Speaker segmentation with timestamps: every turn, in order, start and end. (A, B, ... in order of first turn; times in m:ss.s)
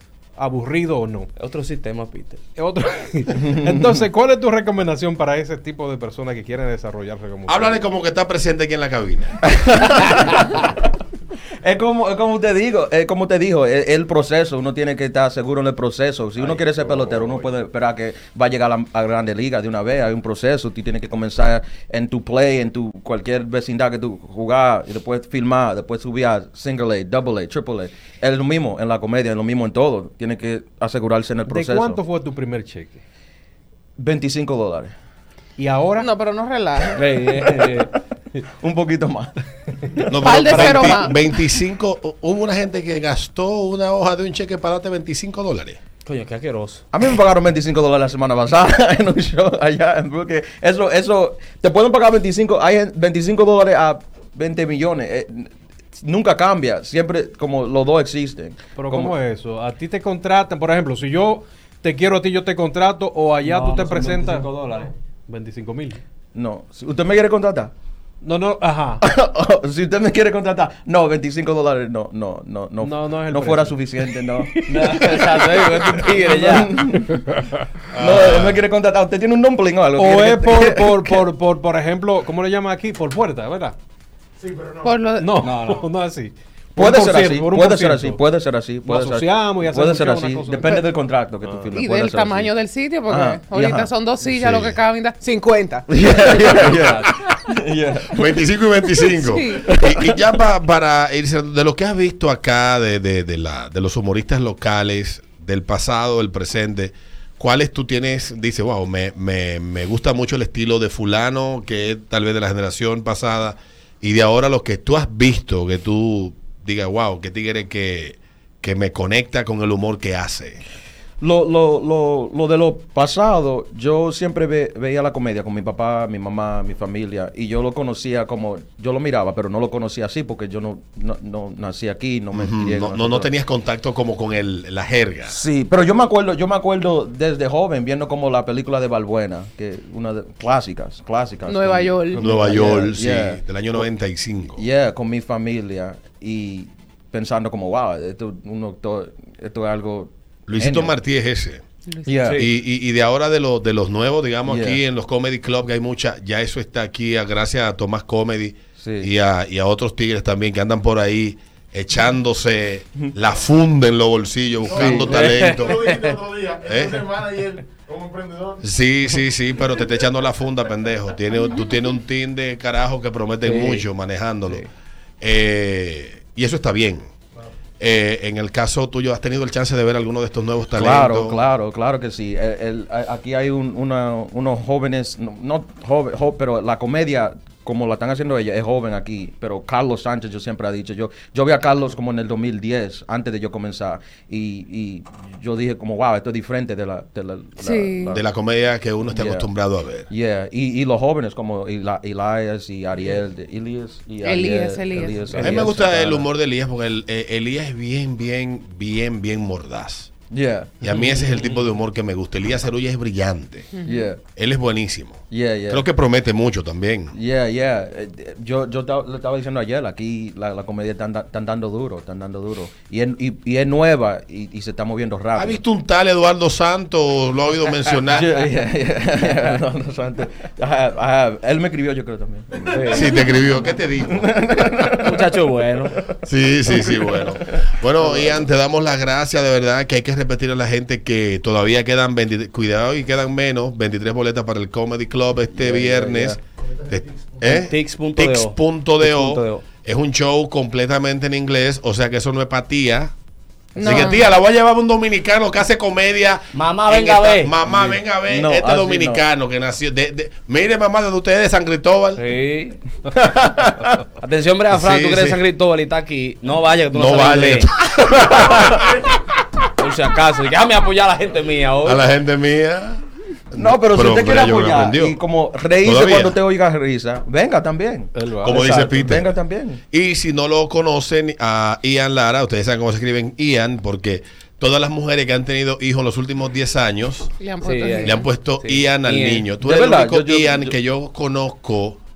0:00.4-0:01.3 A
0:01.4-0:02.4 B
0:02.6-0:07.8 A
0:03.3-0:04.0 C
0:07.5-0:09.6 D
0:09.4-0:10.7 C
0:11.6-0:32.0 C
0:31.5-0:33.0 A
0:34.0-0:34.9 C
0:35.6-0:36.1 A
0:36.0-0:37.0 E
0:36.9-0:37.9 B
0:38.6-0:40.1 C
0:40.1-0:45.8 D
0:40.1-0:41.3 E
0:40.5-0:40.9 B
0:46.0-0:46.8 B
0:46.9-0:59.2 C
0:58.8-1:04.6 A
1:03.4-1:04.9 B
1:05.3-1:06.0 A
1:06.4-1:07.7 C
1:08.2-1:09.0 A
1:09.0-1:17.4 C
1:12.8-1:13.8 A
1:14.6-1:16.9 B
1:17.9-1:18.6 D
1:17.9-1:21.3 C
1:20.0-1:23.8 A
1:24.4-1:25.0 F
1:24.8-1:25.4 E
1:25.2-1:28.2 A
1:25.4-1:25.8 B
1:26.8-1:32.5 C
1:28.8-1:30.9 A
1:31.7-1:36.8 E
1:33.1-1:33.9 C
1:34.2-1:34.8 D
1:35.9-1:38.4 C
1:38.1-2:00.6 D
1:39.0-1:39.7 E
1:39.6-1:40.2 C
2:01.2-2:13.3 C
2:12.3-2:15.4 D
2:15.3-2:23.8 C
2:21.5-2:22.4 E
2:22.2-2:24.6 D
2:24.6-2:31.0 C
2:30.5-2:31.6 D
2:32.1-2:32.4 C
2:32.4-2:45.9 D
2:34.5-2:34.8 C
2:38.8-2:39.1 C
2:44.7-2:48.7 F
2:44.7-2:45.1 C
2:44.9-2:46.2 B
2:46.6-2:47.1 D
2:48.6-2:54.7 D
2:53.4-2:53.9 B
2:55.2-2:57.1 D
2:57.8-3:01.4 D
3:00.8-3:18.2 C
3:17.6-3:18.2 E
3:18.1-3:20.1 D
3:19.1-3:19.5 C
3:20.1-3:26.3 C
3:24.2-3:25.7 E
3:25.4-3:30.1 D
3:30.3-3:30.8 C
3:30.8-3:33.7 D
3:33.8-3:34.1 E
3:33.8-3:34.2 C
3:34.4-3:37.2 D
3:35.3-3:35.8 C
3:37.1-3:45.6 C
3:45.4-3:48.4 D
3:48.1-3:53.4 C
3:52.7-3:53.1 B
3:52.9-3:54.3 D
3:54.1-3:55.2 C
3:55.0-3:56.0 B
3:56.2-4:13.1 D
3:56.7-3:58.4 C
4:05.6-4:06.4 C
4:06.8-4:07.4 F
4:07.5-4:09.6 B
4:13.8-4:14.2 E
4:13.8-4:22.2 D
4:16.5-4:17.6 B
4:18.3-4:19.2 C
4:22.2-4:22.8 B
4:23.1-4:23.9 C
4:24.2-4:27.8 B
4:24.7-4:25.4 D
4:26.9-4:28.8 D
4:29.8-4:32.0 B
4:31.8-4:35.2 D
4:33.5-4:39.8 C
4:35.8-4:36.4 D
4:38.2-4:38.6 A
4:38.4-4:39.4 D
4:39.9-4:47.3 D
4:47.4-4:48.3 E
4:47.6-4:49.5 B
4:48.0-4:52.0 D
4:49.6-4:50.8 C